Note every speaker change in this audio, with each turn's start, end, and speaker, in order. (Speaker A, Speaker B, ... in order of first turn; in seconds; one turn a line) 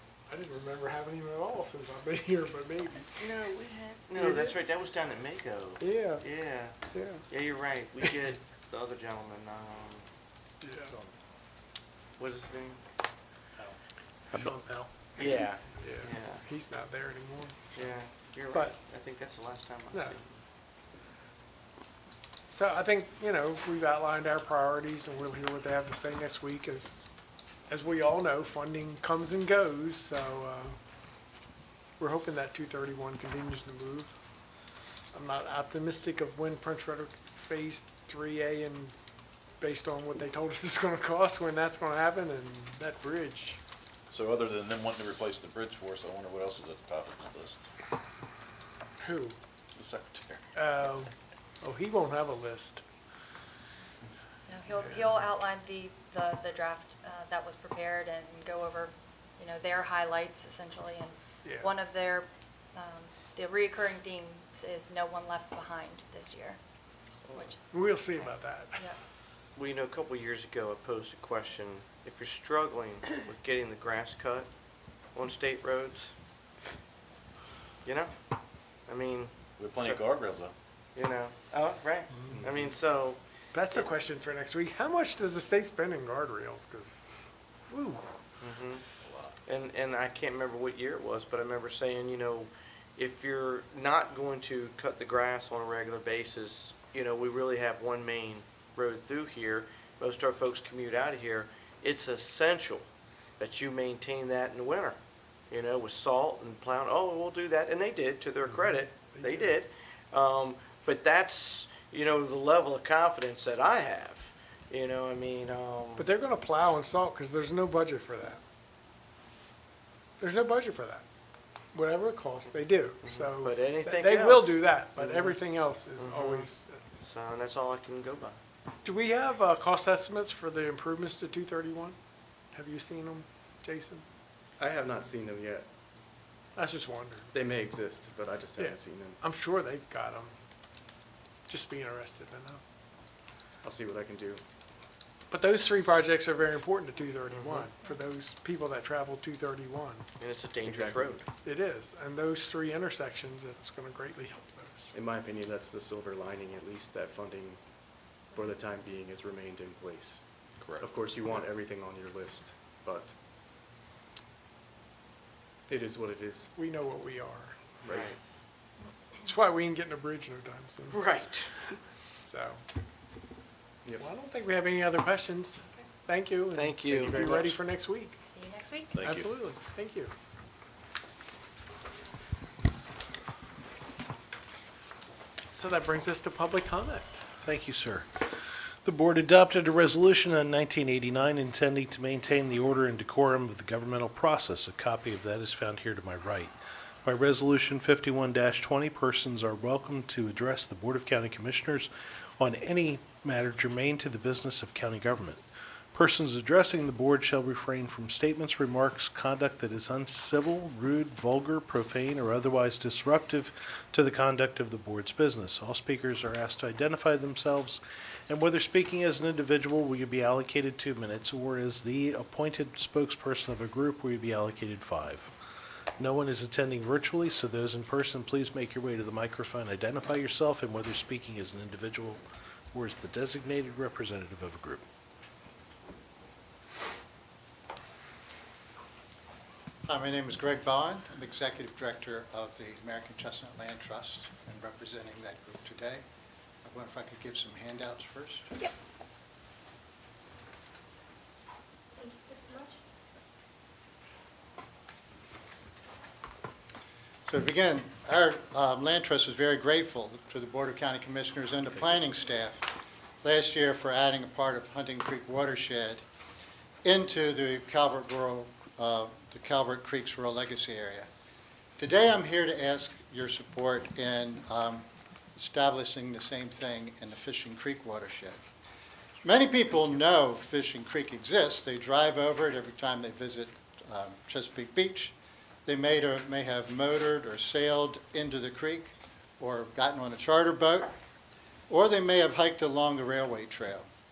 Speaker A: 0.3-3.1
Speaker B: 3.2-6.8
Speaker A: 4.2-4.6
Speaker A: 5.8-6.2
Speaker A: 6.9-7.2
Speaker B: 7.3-10.1
Speaker A: 10.6-10.9
Speaker B: 12.2-12.8
Speaker C: 14.3-14.9
Speaker B: 15.2-16.4
Speaker A: 15.8-17.7
Speaker B: 17.7-20.3
Speaker A: 18.5-18.8
Speaker A: 22.5-27.1
Speaker A: 27.7-30.8
Speaker A: 32.0-34.1
Speaker A: 35.1-38.9
Speaker A: 39.6-43.6
Speaker D: 44.1-47.6
Speaker A: 49.0-49.4
Speaker D: 49.8-50.4
Speaker A: 50.5-52.8
Speaker E: 54.5-66.6
Speaker A: 54.8-55.1
Speaker A: 61.5-61.7
Speaker B: 67.2-67.5
Speaker A: 67.7-68.9
Speaker E: 68.2-69.0
Speaker B: 69.6-74.5
Speaker B: 75.2-76.1
Speaker B: 77.8-78.1
Speaker B: 78.9-80.1
Speaker D: 79.6-80.5
Speaker B: 81.0-83.2
Speaker A: 83.5-87.0
Speaker A: 87.7-88.2
Speaker B: 88.4-88.8
Speaker D: 89.0-89.3
Speaker B: 89.5-102.9
Speaker B: 103.4-105.0
Speaker B: 105.5-116.1
Speaker A: 108.5-109.6
Speaker A: 116.0-118.4
Speaker A: 120.2-121.0
Speaker A: 121.7-126.8
Speaker B: 123.0-125.4
Speaker B: 126.0-128.4
Speaker A: 128.8-132.0
Speaker A: 132.5-134.1
Speaker F: 134.6-135.7
Speaker A: 136.6-137.3
Speaker F: 137.3-139.2
Speaker A: 138.6-140.3
Speaker A: 141.5-142.6
Speaker F: 143.6-144.4
Speaker A: 145.3-150.1
Speaker B: 147.3-147.7
Speaker B: 150.2-151.3
Speaker F: 150.7-151.2
Speaker A: 151.4-154.9
Speaker F: 154.9-157.6
Speaker F: 158.3-160.3
Speaker F: 160.8-163.2
Speaker F: 165.7-166.5
Speaker A: 166.6-167.5
Speaker F: 167.8-168.1
Speaker B: 167.9-168.2
Speaker A: 169.2-171.0
Speaker B: 170.9-171.5
Speaker A: 172.2-172.6
Speaker A: 174.0-178.2
Speaker B: 176.6-177.6
Speaker F: 177.0-177.5
Speaker E: 178.2-179.0
Speaker D: 179.0-179.3
Speaker A: 179.0-180.1
Speaker A: 185.5-187.1
Speaker C: 187.4-188.1
Speaker C: 188.8-196.5
Speaker C: 197.1-205.4
Speaker C: 205.9-225.3
Speaker C: 226.0-232.2
Speaker C: 232.7-234.8
Speaker G: 239.9-246.0
Speaker G: 246.7-248.7
Speaker G: 257.2-262.7
Speaker G: 263.2-266.0
Speaker G: 266.8-271.1
Speaker G: 271.8-278.4
Speaker G: 279.2-290.9
Speaker G: 291.7-293.9